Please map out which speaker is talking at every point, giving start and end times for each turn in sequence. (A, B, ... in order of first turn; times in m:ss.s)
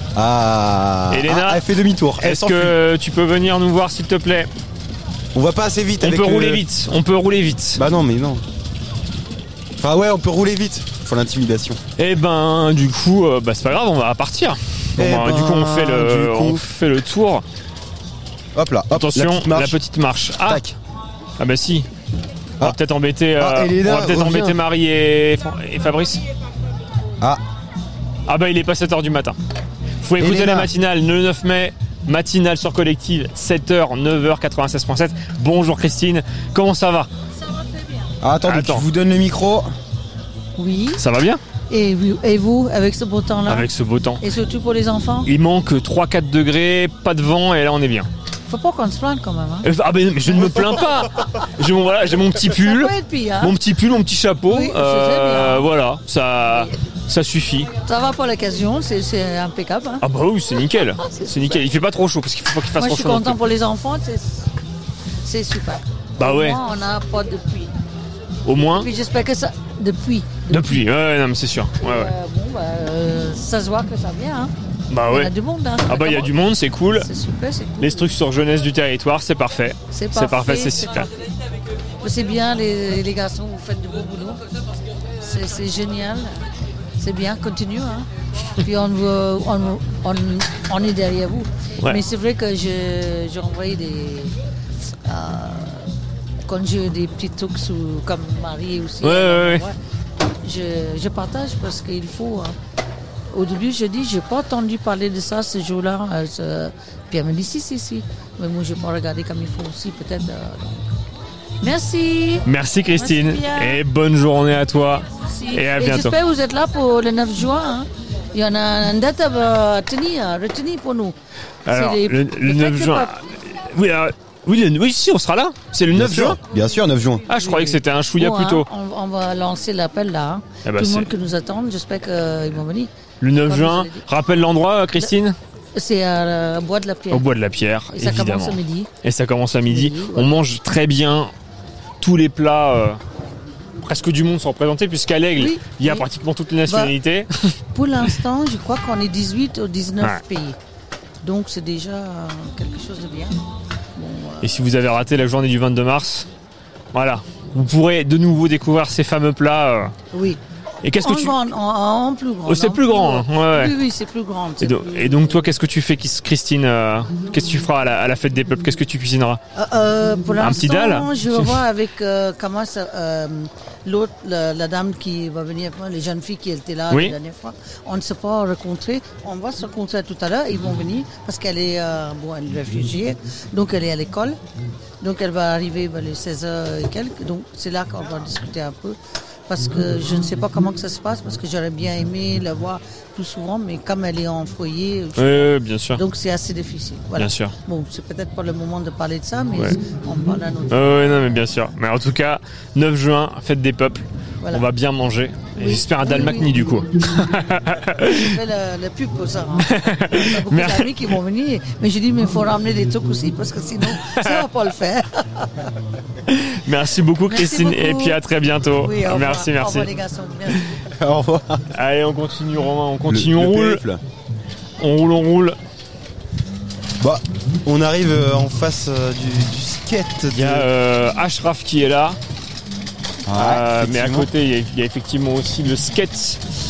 0:00.2-0:02.8 A
0:01.1-0:01.6 B
0:02.2-0:04.5 B
0:05.4-0:06.6 A
0:06.0-0:07.8 B
0:07.8-0:08.4 A
0:09.8-0:11.8 A
0:12.0-0:17.4 B
0:15.0-0:16.6 A
0:18.5-0:19.8 A
0:18.9-0:20.7 B
0:20.4-0:20.7 A
0:21.4-0:21.9 B
0:22.6-0:26.2 B
0:23.4-0:24.6 A
0:28.3-0:29.4 B
0:30.0-0:37.1 B
0:30.2-0:30.7 A
0:38.2-0:39.7 A
0:38.4-0:38.9 B
0:40.6-0:41.0 C
0:41.0-0:41.4 B
0:41.7-0:43.7 C
0:43.5-0:44.2 B
0:44.2-0:45.3 C
0:45.2-0:48.1 B
0:48.5-0:49.7 C
0:49.6-0:57.7 B
0:50.3-0:51.0 C
0:52.4-0:53.6 C
0:54.4-0:55.7 C
0:56.4-0:56.7 C
0:57.8-1:00.0 C
1:00.0-1:03.4 B
1:01.0-1:01.6 C
1:02.8-1:04.4 C
1:05.2-1:07.7 C
1:06.2-1:06.6 B
1:08.4-1:08.9 B
1:08.6-1:10.8 C
1:10.5-1:12.1 B
1:11.8-1:14.5 C
1:14.9-1:15.3 B
1:15.0-1:16.4 C
1:15.9-1:17.1 B
1:16.9-1:18.1 C
1:17.8-1:21.1 B
1:19.9-1:21.1 C
1:22.0-1:24.4 C
1:25.2-1:26.4 C
1:27.0-1:28.0 C
1:28.6-1:34.3 C
1:35.1-1:35.9 C
1:36.5-1:39.7 C
1:39.0-1:39.6 B
1:40.4-1:42.5 C
1:43.3-1:50.9 C
1:51.6-1:53.8 C
1:52.4-1:56.2 B
1:55.3-2:01.1 C
2:01.6-2:06.4 B
2:01.7-2:03.2 C
2:05.9-2:07.2 A
2:07.3-2:08.7 B
2:07.3-2:14.1 C
2:10.6-2:11.1 B
2:13.2-2:15.4 B
2:15.7-2:17.3 C
2:17.1-2:21.3 B
2:17.9-2:18.9 C
2:19.7-2:20.4 C
2:22.0-2:23.0 B
2:23.8-2:27.5 B
2:25.4-2:26.1 C
2:26.6-2:27.0 C
2:27.7-2:30.6 C
2:31.2-2:33.4 C
2:34.0-2:34.6 C
2:34.4-2:36.3 B
2:36.9-2:39.9 B
2:40.1-2:40.4 C
2:40.8-2:41.4 B
2:40.9-2:45.5 C
2:42.4-2:43.7 B
2:44.6-2:49.4 B
2:49.5-3:04.4 C
2:50.4-2:51.5 B
2:56.9-2:57.1 B
3:05.0-3:09.0 C
3:09.5-3:21.5 C
3:15.2-3:16.0 B
3:17.2-3:17.5 B
3:20.7-3:28.4 B
3:24.4-3:24.6 C
3:25.6-3:26.8 C
3:27.8-3:35.5 C
3:29.6-3:30.9 B
3:33.9-3:34.4 B
3:36.3-3:39.9 B
3:37.3-3:40.6 C
3:41.0-3:41.6 A
3:41.7-3:43.8 B
3:43.1-3:44.0 A
3:44.8-3:45.6 B
3:47.0-3:50.7 A
3:50.4-3:52.2 B
3:53.3-3:54.3 A
3:53.4-3:56.4 B